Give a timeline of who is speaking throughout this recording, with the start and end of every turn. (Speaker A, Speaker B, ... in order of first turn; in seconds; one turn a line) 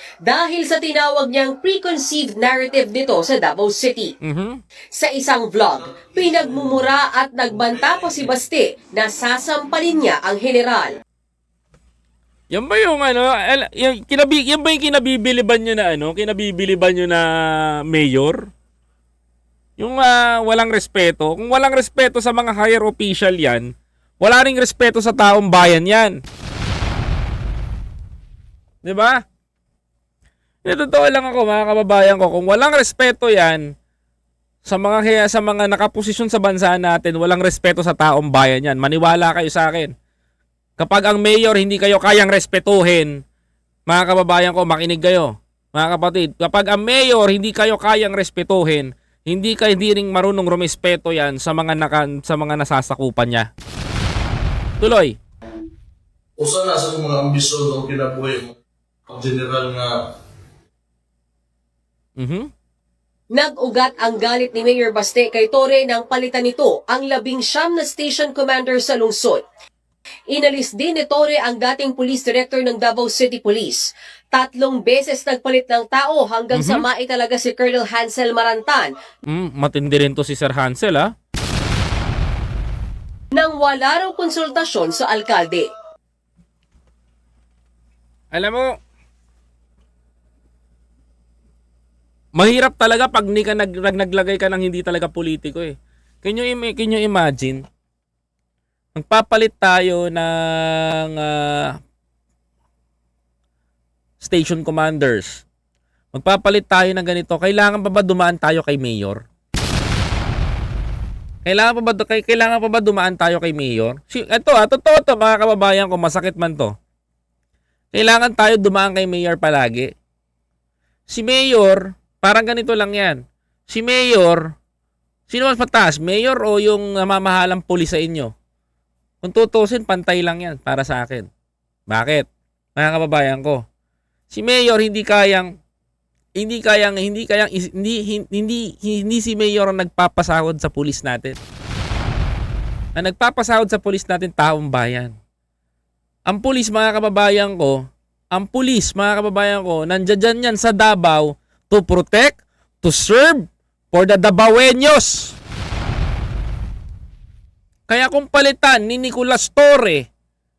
Speaker A: 0.3-4.1
Speaker B: 4.2-4.6
Speaker A: 5.0-10.9
Speaker C: 6.0-6.8
Speaker B: 12.5-18.5
Speaker B: 19.8-23.7
Speaker B: 24.2-26.2
Speaker B: 28.8-29.2
Speaker B: 30.6-33.6
Speaker B: 34.6-39.9
Speaker B: 40.8-43.1
Speaker B: 43.9-53.5
Speaker B: 54.8-55.2
Speaker C: 56.4-58.5
Speaker C: 59.1-60.0
Speaker B: 62.2-62.5
Speaker A: 63.4-69.4
Speaker A: 70.3-78.9
Speaker B: 76.5-76.8
Speaker B: 79.3-81.1
Speaker A: 83.3-85.7
Speaker B: 88.3-88.7
Speaker B: 92.4-97.6
Speaker B: 99.0-101.8
Speaker B: 104.2-105.4
Speaker B: 106.1-109.2
Speaker B: 111.5-116.7
Speaker B: 117.9-119.9
Speaker B: 121.1-124.4
Speaker B: 125.3-128.3
Speaker B: 129.2-131.3
Speaker B: 131.9-133.6
Speaker B: 134.3-135.5
Speaker B: 136.4-141.4
Speaker B: 143.0-145.1
Speaker B: 146.3-147.8
Speaker B: 148.3-155.4
Speaker B: 157.9-160.1